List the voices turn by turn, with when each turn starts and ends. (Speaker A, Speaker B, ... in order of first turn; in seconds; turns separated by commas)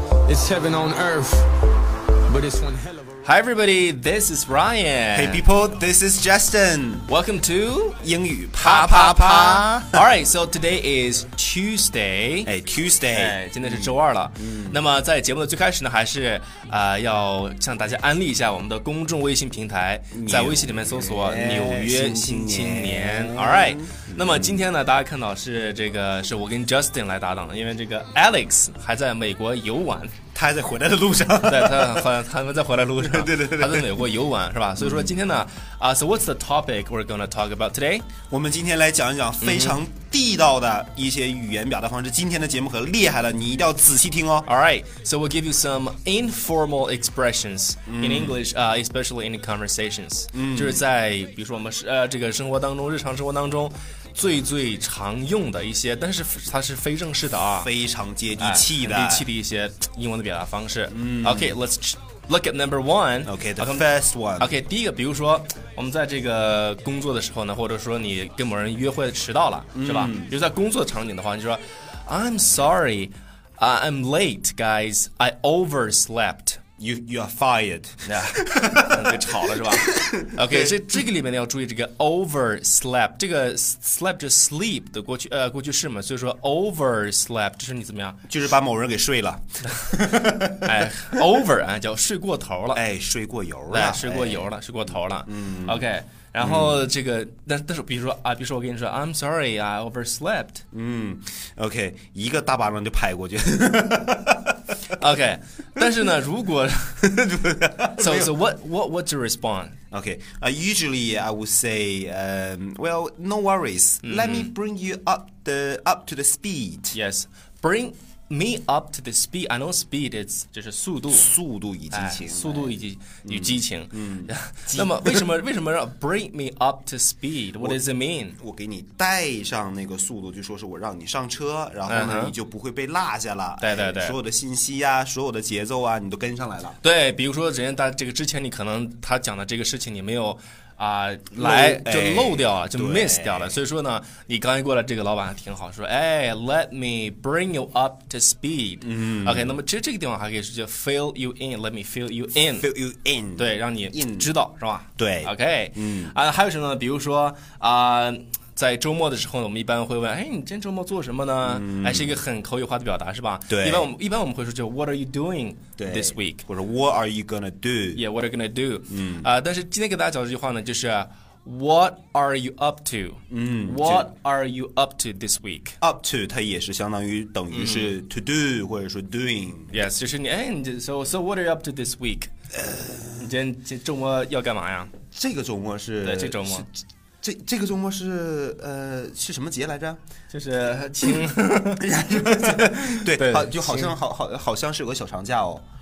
Speaker A: 0.2-1.5, Speaker A: 2.2-3.1, Speaker B: 3.2-5.4, Speaker C: 5.1-7.1, Speaker B: 7.1-8.0, Speaker C: 8.0-10.1, Speaker B: 8.6-12.5, Speaker C: 12.4-14.8, Speaker B: 13.1-30.2, Speaker C: 20.1-24.7, Speaker C: 30.3-32.1, Speaker B: 31.4-38.1, Speaker C: 33.0-34.0, Speaker C: 34.8-35.2, Speaker C: 38.3-44.5, Speaker B: 39.4-39.8, Speaker B: 44.5-57.7, Speaker C: 47.9-48.4, Speaker C: 50.3-50.8, Speaker C: 57.5-59.3, Speaker B: 58.4-63.9, Speaker C: 60.9-61.6, Speaker C: 63.2-64.6, Speaker B: 64.4-76.6, Speaker C: 69.7-70.3, Speaker C: 76.8-81.0, Speaker B: 78.0-88.2, Speaker C: 88.3-91.3, Speaker B: 90.6-92.8, Speaker C: 92.7-94.5, Speaker B: 93.7-100.6, Speaker C: 95.2-95.9, Speaker C: 96.4-96.9, Speaker C: 100.7-104.8, Speaker B: 104.9-107.1, Speaker C: 107.0-108.4, Speaker B: 108.0-109.8, Speaker C: 109.9-117.0, Speaker B: 114.0-114.5, Speaker B: 116.9-121.3, Speaker C: 121.1-125.3, Speaker B: 121.9-128.4, Speaker C: 128.3-136.8, Speaker B: 131.9-132.3, Speaker B: 133.6-134.2, Speaker B: 136.8-152.7, Speaker C: 141.3-143.6, Speaker C: 148.8-149.6, Speaker C: 152.4-154.3, Speaker B: 153.4-166.4, Speaker C: 154.9-156.1, Speaker C: 161.4-162.2, Speaker C: 163.5-163.9, Speaker C: 165.8-168.0, Speaker B: 167.9-175.8, Speaker C: 168.9-169.3, Speaker C: 173.3-174.1, Speaker C: 175.8-179.8, Speaker B: 177.5-177.9, Speaker B: 179.7-182.3, Speaker C: 182.6-183.1, Speaker B: 183.1-184.9, Speaker C: 185.1-186.7, Speaker B: 186.0-186.7, Speaker C: 187.2-190.0, Speaker B: 190.3-193.9, Speaker C: 191.8-195.6